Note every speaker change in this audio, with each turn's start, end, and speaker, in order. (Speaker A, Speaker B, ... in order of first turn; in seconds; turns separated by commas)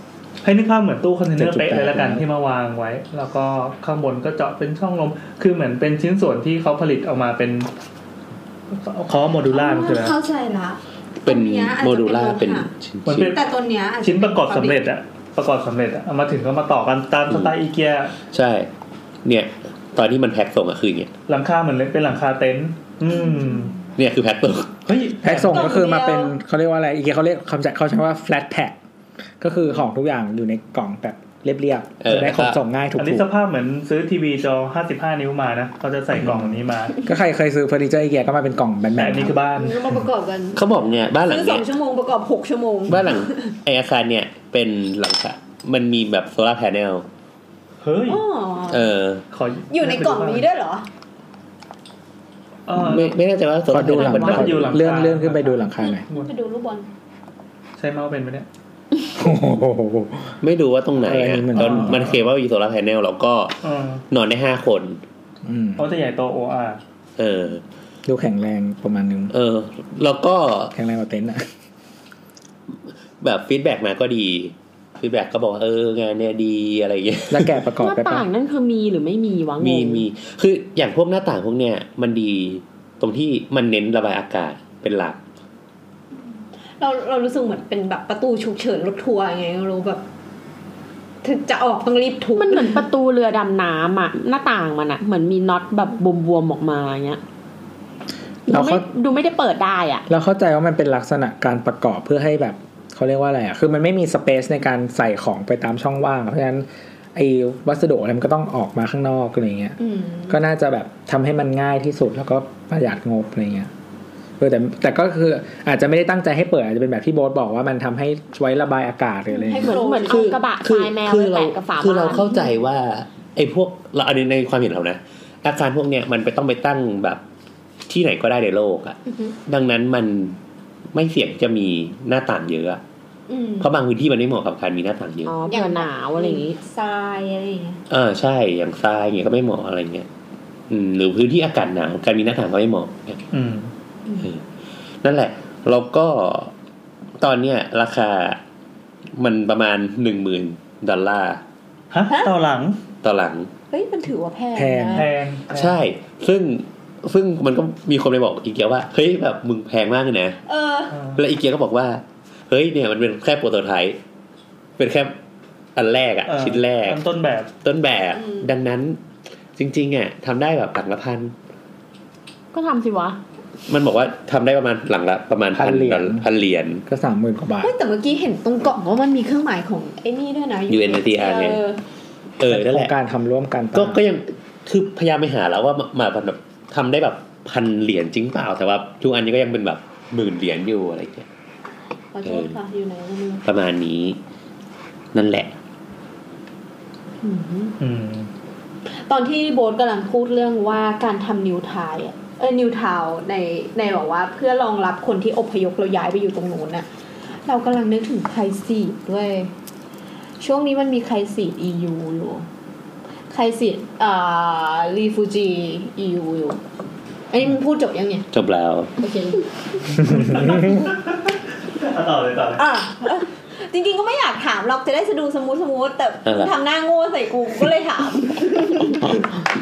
Speaker A: 0.4-7.7, Speaker B: 1.4-2.2, Speaker A: 8.7-10.2, Speaker C: 9.5-12.7, Speaker D: 11.2-13.3, Speaker A: 13.1-13.4, Speaker C: 13.2-14.8, Speaker A: 14.0-18.1, Speaker D: 17.3-17.5, Speaker D: 18.3-18.7, Speaker D: 19.2-21.1, Speaker A: 21.3-23.7, Speaker C: 23.2-23.5, Speaker D: 24.0-24.8, Speaker A: 24.9-25.8, Speaker B: 25.2-28.8, Speaker C: 25.5-26.3, Speaker B: 29.4-33.3, Speaker D: 32.0-32.6, Speaker A: 33.0-37.0, Speaker B: 37.0-39.4, Speaker A: 39.0-39.9, Speaker C: 39.6-40.7, Speaker D: 40.5-41.6, Speaker C: 41.2-43.5, Speaker D: 42.9-47.0, Speaker A: 47.8-48.2, Speaker C: 48.1-48.9, Speaker D: 48.7-49.2, Speaker A: 49.3-50.5, Speaker C: 49.7-50.9, Speaker A: 52.7-53.1, Speaker D: 52.8-54.8, Speaker B: 53.7-56.0, Speaker A: 54.0-56.3, Speaker C: 55.8-56.9, Speaker A: 57.8-58.5, Speaker B: 59.1-60.4, Speaker D: 60.4-65.0, Speaker B: 61.0-62.0, Speaker A: 61.5-62.2, Speaker A: 63.6-64.0, Speaker B: 65.4-65.9, Speaker A: 65.8-66.8, Speaker D: 67.2-67.6, Speaker B: 68.0-69.3, Speaker D: 69.3-70.7, Speaker B: 70.7-71.5, Speaker D: 73.2-77.6, Speaker B: 77.3-78.2, Speaker E: 77.8-80.0, Speaker D: 79.6-85.2, Speaker C: 86.8-90.0, Speaker C: 91.2-92.8, Speaker E: 92.3-97.2, Speaker E: 98.5-100.0, Speaker B: 98.5-98.9, Speaker B: 100.1-109.8, Speaker C: 109.8-110.4, Speaker B: 110.3-113.7, Speaker B: 114.4-119.8, Speaker C: 119.3-120.4, Speaker E: 119.6-122.3, Speaker D: 120.0-127.2, Speaker D: 127.9-130.4, Speaker D: 130.9-132.8, Speaker C: 133.3-133.7, Speaker D: 133.6-135.3, Speaker E: 135.2-136.6, Speaker C: 135.4-137.8, Speaker D: 137.9-140.1, Speaker D: 140.7-143.2, Speaker A: 143.3-143.7, Speaker D: 144.2-144.4, Speaker D: 145.0-146.5, Speaker D: 147.2-148.4, Speaker D: 149.2-151.4, Speaker A: 151.9-152.8, Speaker D: 153.0-153.5, Speaker C: 153.7-155.1, Speaker B: 154.5-155.1, Speaker A: 154.9-155.8, Speaker D: 155.5-160.4, Speaker C: 160.5-161.0, Speaker D: 161.1-164.0, Speaker D: 164.8-165.1, Speaker D: 165.7-167.0, Speaker A: 166.3-167.5, Speaker D: 167.6-169.0, Speaker D: 169.6-171.3, Speaker E: 172.5-173.2, Speaker D: 173.7-176.8, Speaker B: 175.5-176.2, Speaker B: 176.9-177.7, Speaker C: 177.6-181.8, Speaker D: 180.7-181.6, Speaker D: 182.4-182.9, Speaker B: 182.5-184.0, Speaker D: 183.7-191.3, Speaker C: 192.1-193.4, Speaker D: 192.2-192.5, Speaker D: 193.4-194.2, Speaker D: 195.1-195.5, Speaker C: 197.2-197.7, Speaker A: 197.8-198.3, Speaker C: 199.1-206.9, Speaker C: 207.4-209.5, Speaker C: 210.4-212.4, Speaker C: 213.3-216.6, Speaker C: 217.3-218.3, Speaker D: 218.3-218.9, Speaker C: 219.0-220.7, Speaker A: 220.1-222.7, Speaker C: 222.6-229.1, Speaker D: 226.2-226.5, Speaker D: 228.8-229.5